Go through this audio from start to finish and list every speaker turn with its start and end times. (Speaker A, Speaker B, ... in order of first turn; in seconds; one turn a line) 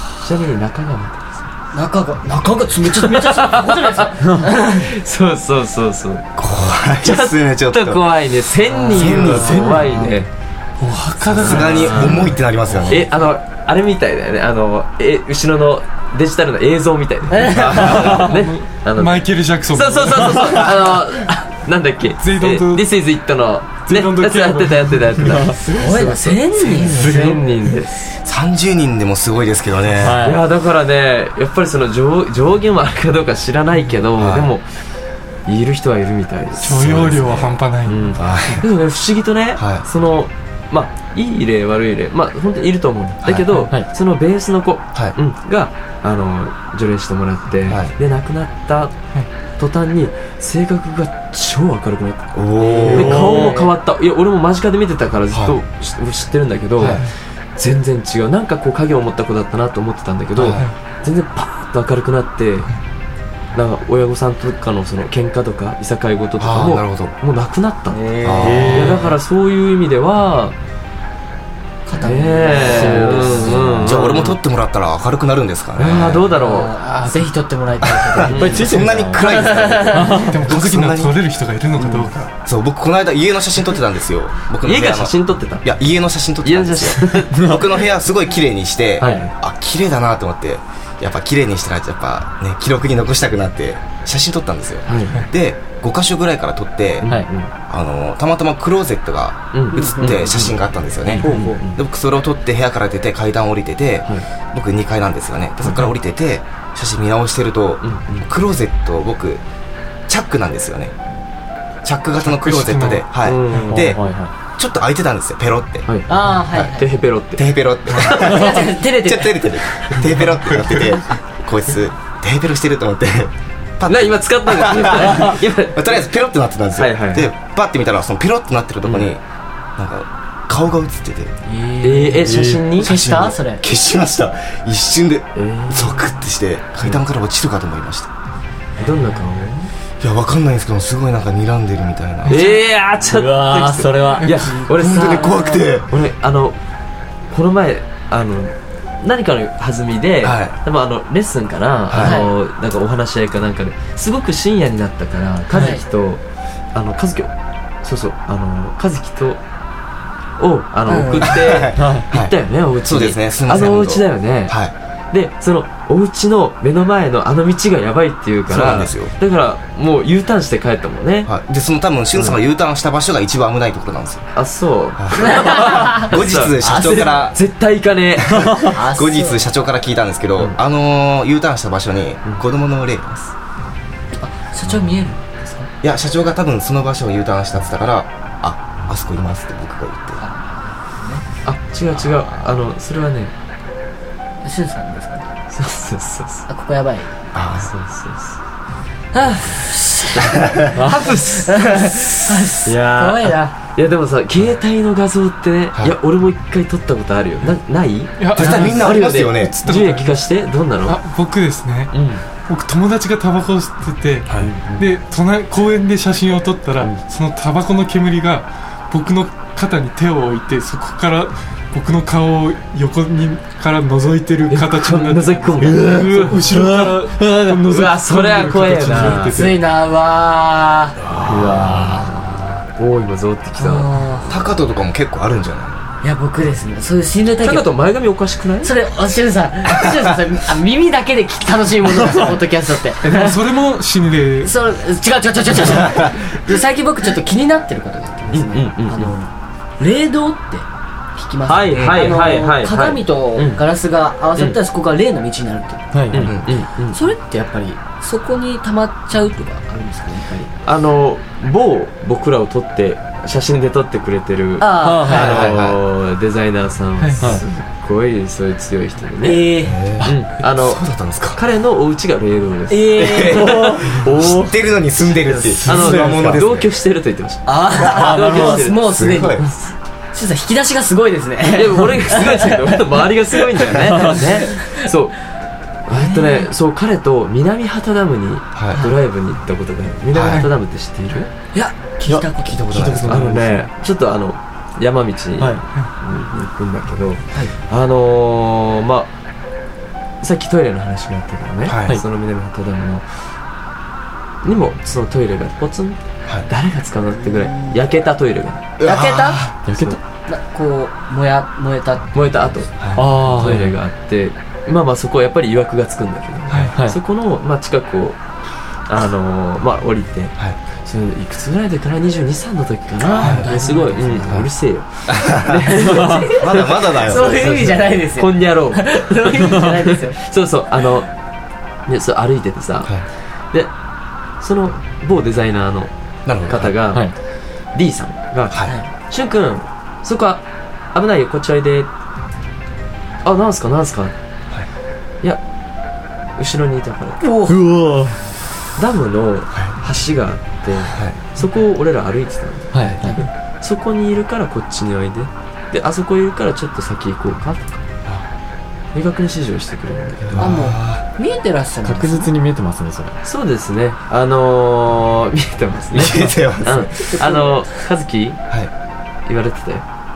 Speaker A: 0.2-1.4
Speaker B: 1.7-4.9
Speaker A: 2.8-6.3
Speaker C: 6.4-8.0
Speaker A: 7.0-10.3
Speaker C: 8.8-10.0
Speaker B: 8.9-9.9
Speaker D: 10.8-12.3
Speaker C: 11.3-13.1
Speaker A: 11.4-12.3
Speaker A: 12.8-28.0
Speaker B: 17.3-17.7
Speaker D: 17.7-20.8
Speaker D: 22.2-22.9
Speaker D: 23.9-25.4
Speaker E: 25.2-25.5
Speaker B: 25.6-27.0
Speaker C: 26.6-27.3
Speaker D: 27.0-27.4
Speaker C: 28.2-30.2
Speaker E: 30.0-30.4
Speaker A: 30.2-34.6
Speaker C: 34.2-34.5
Speaker A: 35.5-48.9
Speaker D: 36.6-38.1
Speaker C: 36.8-37.6
Speaker C: 38.2-38.6
Speaker C: 39.6-39.8
Speaker C: 47.7-47.9
Speaker A: 49.6-52.3
Speaker C: 52.3-53.5
Speaker B: 52.6-53.7
Speaker A: 52.8-62.7
Speaker E: 52.9-53.5
Speaker C: 55.3-55.6
Speaker C: 56.8-57.1
Speaker D: 56.8-57.1
Speaker C: 60.4-60.7
Speaker A: 63.5-68.0
Speaker C: 66.4-67.2
Speaker B: 67.9-68.8
Speaker C: 68.2-68.9
Speaker E: 68.4-69.2
Speaker A: 68.6-70.5
Speaker B: 71.8-73.7
Speaker A: 72.0-74.4
Speaker E: 72.6-74.0
Speaker C: 73.8-76.3
Speaker A: 75.8-76.7
Speaker B: 76.3-80.3
Speaker D: 76.8-77.3
Speaker C: 77.8-81.1
Speaker A: 78.3-78.7
Speaker E: 78.3-80.4
Speaker D: 80.2-82.3
Speaker B: 81.8-82.0
Speaker C: 82.4-97.1
Speaker A: 84.6-85.7
Speaker A: 86.4-87.4
Speaker E: 87.3-87.6
Speaker A: 89.0-89.3
Speaker A: 94.8-95.2
Speaker A: 97.0-97.5
Speaker C: 97.7-109.4
Speaker A: 99.5-100.6
Speaker B: 99.7-100.4
Speaker B: 101.2-101.6
Speaker A: 101.2-101.8
Speaker D: 105.6-105.9
Speaker A: 107.8-108.2
Speaker C: 110.1-110.9
Speaker C: 111.8-114.0
Speaker D: 112.2-113.0
Speaker A: 113.2-114.0
Speaker E: 113.7-114.3
Speaker C: 114.6-115.9
Speaker A: 115.8-118.3
Speaker B: 116.1-116.9
Speaker C: 116.5-116.8
Speaker C: 117.3-129.2
Speaker B: 118.2-119.5
Speaker A: 123.9-126.1
Speaker A: 126.8-127.3
Speaker A: 128.8-129.1
Speaker C: 129.8-131.3
Speaker B: 131.4-133.6
Speaker A: 131.8-132.9
Speaker E: 132.2-132.6
Speaker C: 132.8-138.1
Speaker A: 135.3-136.1
Speaker A: 138.8-139.7
Speaker C: 140.0-142.4
Speaker A: 142.3-146.6
Speaker E: 143.1-144.3
Speaker B: 144.4-145.6
Speaker C: 144.7-145.9
Speaker A: 147.3-156.2
Speaker C: 150.2-150.5
Speaker C: 151.9-152.2
Speaker B: 151.9-152.3
Speaker B: 155.5-155.8
Speaker A: 156.7-157.3
Speaker A: 157.8-159.4
Speaker A: 160.4-164.6
Speaker B: 160.9-161.3
Speaker C: 161.2-164.7
Speaker E: 161.8-162.0
Speaker A: 165.1-171.3
Speaker C: 168.5-169.1
Speaker C: 171.2-174.3
Speaker A: 172.1-172.4
Speaker A: 174.3-178.7
Speaker C: 175.0-177.4
Speaker B: 175.4-176.0
Speaker C: 178.2-183.3
Speaker B: 178.6-179.4
Speaker B: 184.1-185.7
Speaker C: 185.8-190.2
Speaker B: 190.2-191.2
Speaker A: 191.4-193.3
Speaker B: 194.4-195.2
Speaker A: 195.5-196.4
Speaker B: 196.5-197.1
Speaker C: 197.3-197.7
Speaker A: 197.6-198.4
Speaker B: 199.1-203.5
Speaker A: 199.2-199.5
Speaker A: 200.1-211.0
Speaker D: 208.2-208.9
Speaker C: 208.3-209.6
Speaker D: 209.5-210.1
Speaker D: 210.8-211.9
Speaker A: 211.9-212.2
Speaker D: 212.5-229.6
Speaker A: 214.4-214.9
Speaker A: 224.5-226.5
Speaker E: 225.8-227.7
Speaker A: 227.7-229.5
Speaker B: 229.2-231.0
Speaker A: 231.1-233.9
Speaker E: 231.3-232.0
Speaker B: 233.6-234.3
Speaker C: 234.2-235.9
Speaker B: 236.0-237.7
Speaker A: 237.4-238.7
Speaker B: 238.6-243.5
Speaker C: 239.7-240.0
Speaker D: 243.0-244.5
Speaker B: 244.4-255.9
Speaker A: 248.3-249.1
Speaker A: 251.5-253.6
Speaker C: 251.7-252.2
Speaker A: 254.3-254.6
Speaker E: 255.9-256.3
Speaker A: 256.1-257.0
Speaker C: 256.1-256.6
Speaker B: 256.5-260.5
Speaker A: 260.6-269.4
Speaker B: 264.6-265.4
Speaker E: 264.8-265.4
Speaker C: 265.1-265.8
Speaker D: 267.0-267.3
Speaker B: 269.2-269.8
Speaker C: 269.6-271.4
Speaker A: 270.0-273.9
Speaker B: 272.7-273.7
Speaker C: 273.0-276.7
Speaker E: 273.3-274.5
Speaker A: 275.3-278.8
Speaker E: 275.6-276.4
Speaker B: 277.5-279.4
Speaker E: 278.0-278.4
Speaker C: 278.2-279.4
Speaker A: 279.4-279.7
Speaker B: 280.1-282.8
Speaker A: 281.5-285.2
Speaker A: 285.9-291.3
Speaker B: 285.9-286.4
Speaker C: 288.5-288.8
Speaker C: 290.1-290.5
Speaker B: 291.5-292.7
Speaker E: 292.1-293.6
Speaker C: 292.4-293.3
Speaker A: 293.1-299.1
Speaker A: 300.2-303.0
Speaker C: 301.6-302.0
Speaker A: 304.4-308.6
Speaker B: 307.4-307.8
Speaker C: 308.8-309.5
Speaker B: 308.8-309.5
Speaker E: 309.6-310.0
Speaker B: 310.1-312.6
Speaker A: 312.1-318.2
Speaker C: 312.8-313.0
Speaker E: 313.0-313.7
Speaker A: 318.9-331.1
Speaker B: 323.0-324.4
Speaker C: 323.2-323.5
Speaker C: 325.1-327.7
Speaker B: 325.7-330.2
Speaker A: 331.9-332.9
Speaker A: 334.4-335.9
Speaker C: 336.2-336.7
Speaker A: 336.4-337.1
Speaker A: 337.7-341.9
Speaker C: 338.5-338.8
Speaker A: 343.2-344.1
Speaker A: 346.4-347.2
Speaker B: 347.2-347.6
Speaker E: 347.5-348.2
Speaker A: 348.8-357.9
Speaker C: 350.9-351.2
Speaker E: 352.7-353.2
Speaker A: 358.9-360.6
Speaker C: 360.2-361.0
Speaker B: 360.4-362.3
Speaker E: 361.8-363.2
Speaker A: 363.2-368.4
Speaker C: 365.9-366.9
Speaker B: 366.6-367.7
Speaker A: 369.2-369.9